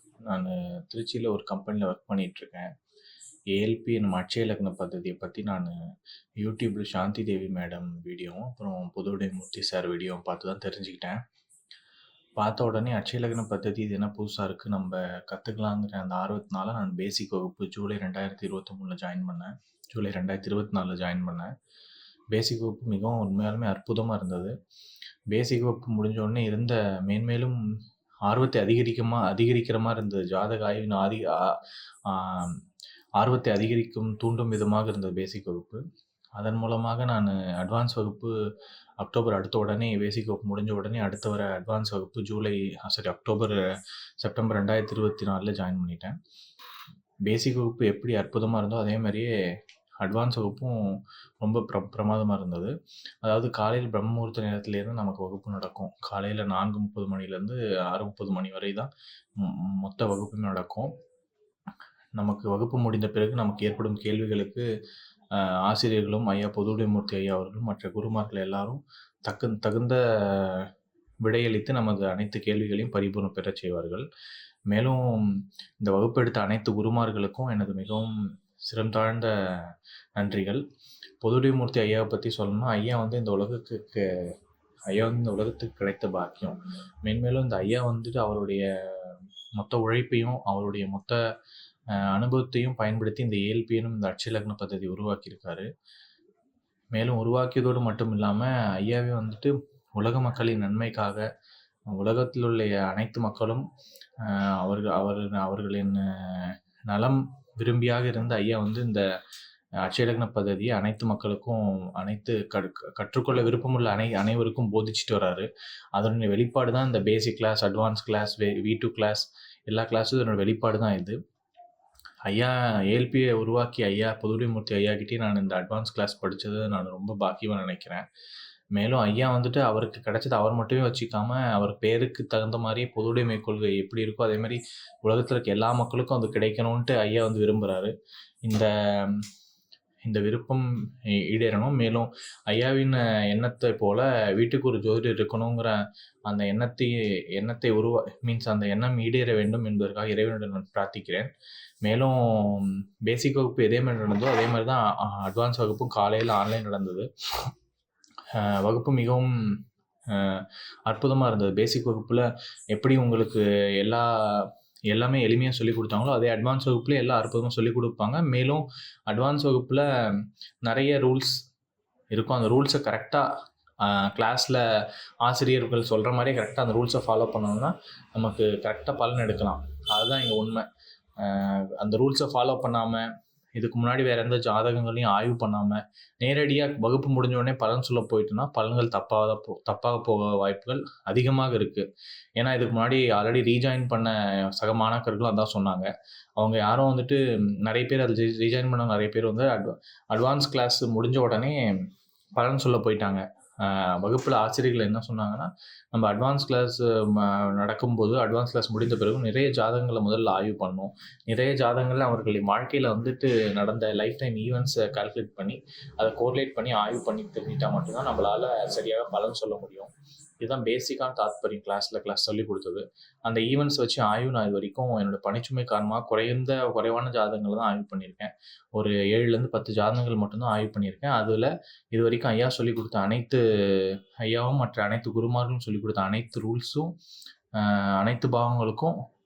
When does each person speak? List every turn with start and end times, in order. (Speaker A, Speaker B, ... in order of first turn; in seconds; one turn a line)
Speaker A: 0.3-2.7
Speaker A: 3.5-5.8
Speaker A: 6.4-11.2
Speaker A: 12.4-21.5
Speaker A: 22.3-24.5
Speaker A: 25.3-27.6
Speaker A: 28.2-32.6
Speaker A: 33.2-35.8
Speaker A: 36.4-38.3
Speaker A: 39.0-43.6
Speaker A: 44.2-46.1
Speaker A: 47.2-49.3
Speaker A: 50.0-60.9
Speaker A: 62.2-64.6
Speaker A: 65.3-70.7
Speaker A: 71.2-74.0
Speaker A: 74.7-78.1
Speaker A: 78.6-80.6
Speaker A: 81.2-84.1
Speaker A: 84.9-91.2
Speaker A: 92.0-95.7
Speaker A: 96.9-101.2
Speaker A: 101.9-103.6
Speaker A: 104.2-109.0
Speaker A: 109.8-121.2
Speaker A: 122.3-128.0
Speaker A: 128.7-137.9
Speaker A: 138.4-139.2
Speaker A: 140.1-140.7
Speaker A: 141.2-145.8
Speaker A: 146.3-151.3
Speaker A: 151.8-157.1
Speaker A: 158.3-159.5
Speaker A: 160.1-169.8
Speaker A: 170.6-171.3
Speaker A: 172.1-173.2
Speaker A: 173.8-174.6
Speaker A: 175.2-180.7
Speaker A: 181.2-191.8
Speaker A: 192.4-201.6
Speaker A: 202.3-219.9
Speaker A: 220.4-236.9
Speaker A: 237.5-238.9